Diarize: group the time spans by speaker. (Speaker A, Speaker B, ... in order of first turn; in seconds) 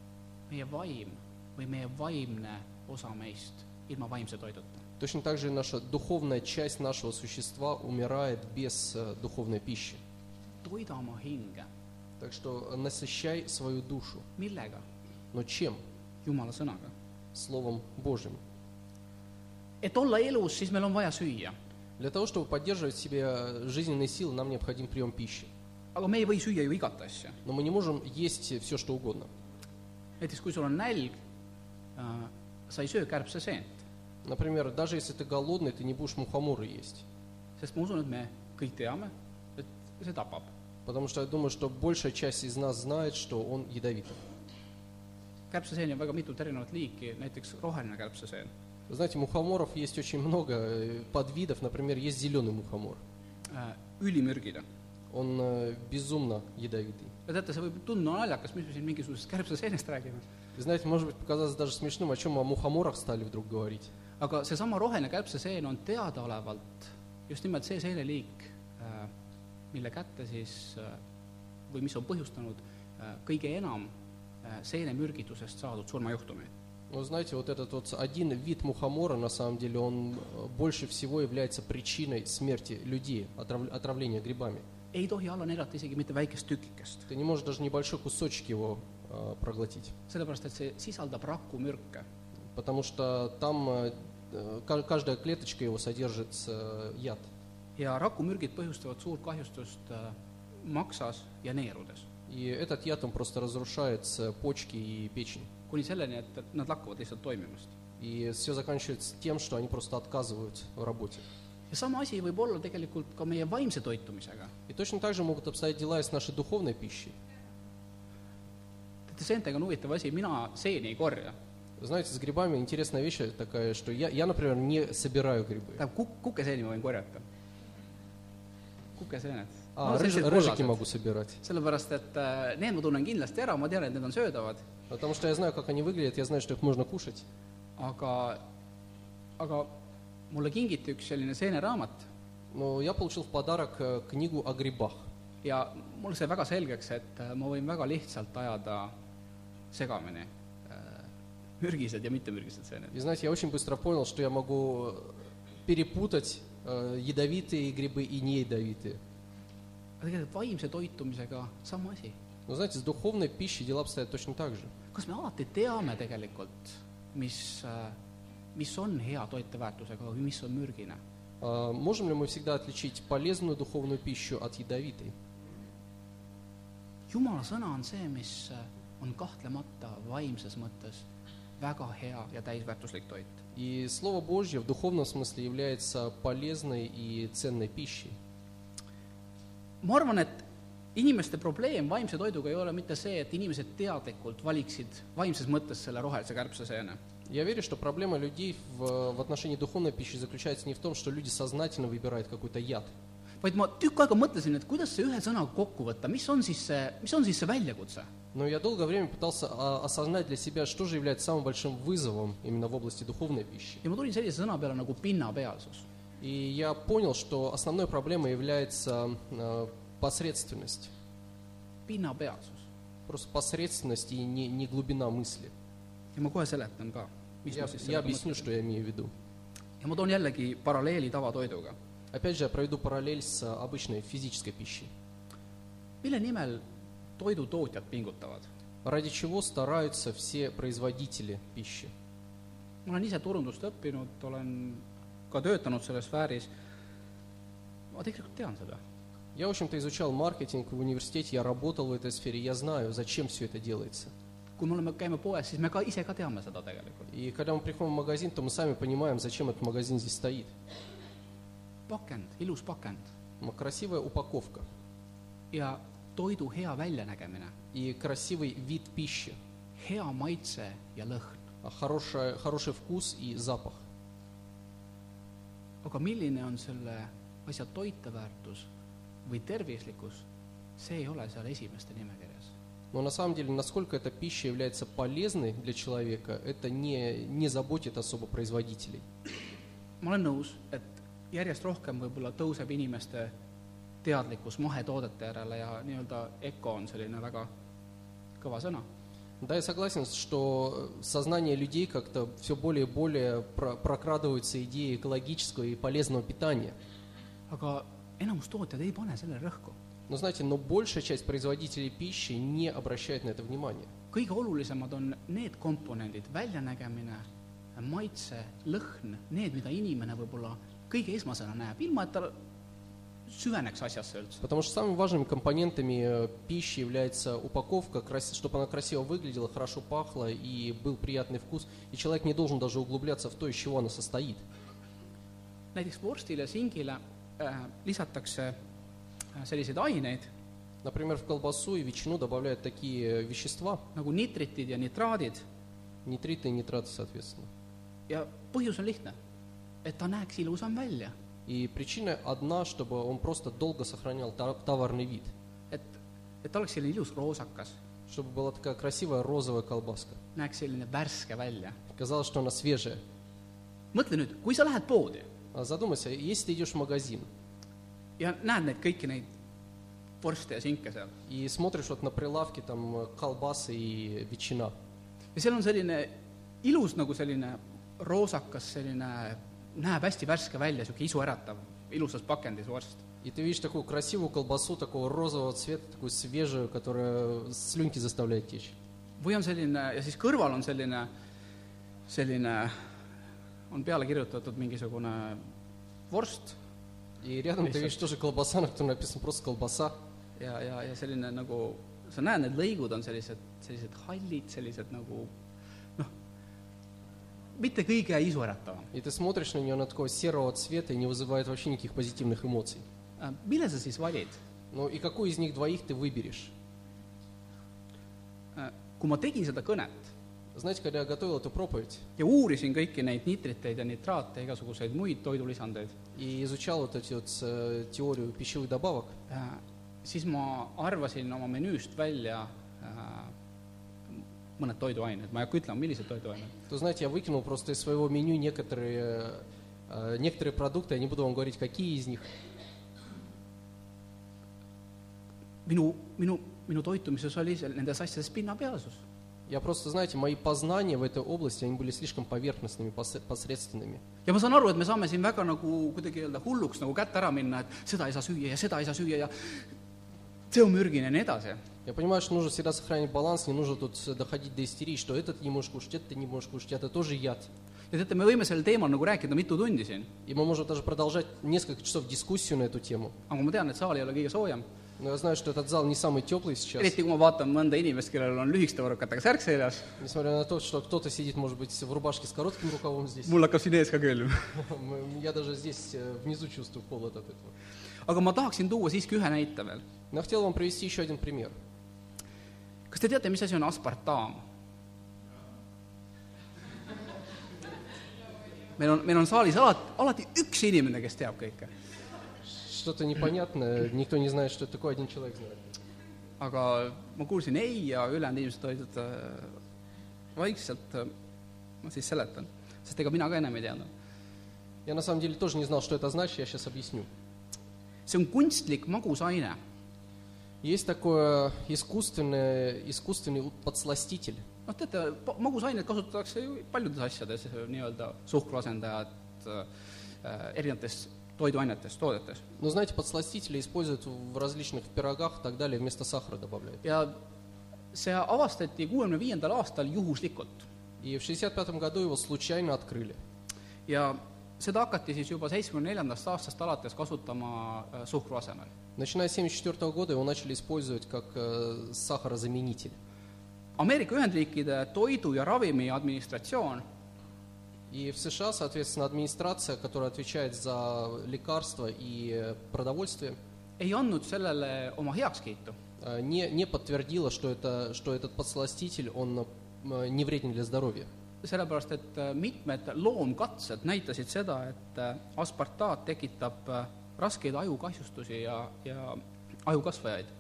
Speaker A: 0.5-4.8, 10.6-11.7, 14.4-14.8, 16.2-16.9, 19.8-21.5, 25.9-27.4, 30.2-31.1, 31.9-33.8, 37.6-40.5, 45.5-48.5, 53.5-54.6, 57.3-60.2, 64.2-69.1, 69.7-71.0, 71.7-73.9, 74.4-76.5, 84.9-87.1, 90.1-92.0, 97.8-102.0, 105.7-107.7, 111.7-114.5, 119.1-121.3, 125.8-127.2, 129.0-130.8, 131.4-134.6, 137.8-138.4, 139.4-139.7, 140.3-142.1, 145.4-148.9, 149.7-151.1, 151.6-152.9, 160.0-162.2, 164.9-167.9, 168.5-171.0, 177.1-181.0, 181.6-183.4, 189.8-197.0, 203.4-208.1, 213.8-215.8, 221.8-222.6, 226.2-228.4, 229.8-231.8, 236.0-236.6, 237.2-238.5, 242.8-246.5, 247.9-248.8, 254.6-257.1, 261.9-263.0, 265.5-267.5, 269.8-271.4, 275.8-278.7, 279.2-280.2, 280.8-282.5, 290.0-293.3, 294.0-297.5, 298.4-298.8, 307.5-309.7, 314.1-317.2, 317.8-322.3, 323.3-324.4, 335.7-338.5, 339.3-340.3, 343.9-345.4, 348.1-349.1, 349.8-351.1, 355.7-357.8, 360.4-361.8, 363.9-365.2, 368.2-369.2, 370.2-371.1, 375.3-376.1, 376.6-383.0, 389.2-391.1, 392.1-392.9, 393.7-395.5, 396.1-396.6, 400.4-405.3, 407.6-408.9, 413.2-414.4, 418.5-420.1, 422.2-425.9, 429.3-433.3, 434.1-436.5, 445.6-449.0, 454.2-459.6, 460.5-461.6, 467.9-470.1, 473.3-474.6, 476.8-479.9, 483.2-484.6, 488.0-489.8, 492.9-494.4, 498.8-501.7, 506.4-509.6, 510.3-511.1, 511.8-513.9, 518.1-519.6, 524.7-529.7, 530.2-532.4, 536.8-537.1, 537.9-540.7, 543.9-548.7, 553.8-556.8, 563.8-565.8, 571.4-580.3
Speaker B: 5.0-10.0, 12.2-14.2, 15.3-15.8, 17.3-18.4, 22.0-25.5, 27.4-29.3, 34.2-37.0, 40.9-44.2, 48.9-53.0, 55.1-57.1, 60.5-63.9, 76.9-84.6, 87.1-89.9, 92.5-97.3, 102.3-105.5, 108.0-111.2, 114.7-117.1, 121.8-125.8, 129.8-131.4, 134.9-137.2, 142.5-145.0, 152.9-159.0, 162.5-164.7, 171.4-175.1, 183.5-188.1, 197.3-202.9, 208.3-213.8, 216.2-220.9, 223.1-225.5, 227.5-229.1, 232.1-234.9, 238.8-241.9, 249.3-254.1, 257.1-260.5, 263.4-264.6, 267.7-269.4, 271.6-273.8, 282.9-289.0, 299.4-306.7, 310.1-313.9, 324.4-334.4, 340.8-343.8, 346.0-347.5, 351.4-355.3, 358.1-360.2, 361.9-363.0, 365.5-367.3, 371.2-374.7, 383.2-388.7, 397.2-399.9, 408.9-412.8, 414.7-416.5, 420.5-422.1, 426.1-429.1, 436.7-442.3, 449.5-454.0, 461.9-467.5, 470.2-473.1, 475.0-476.9, 480.0-483.3, 484.5-487.5, 490.1-491.5, 502.4-505.8, 514.9-517.1, 520.6-524.4, 532.6-536.8, 541.0-543.2, 549.0-553.0, 557.9-563.4, 566.0-571.1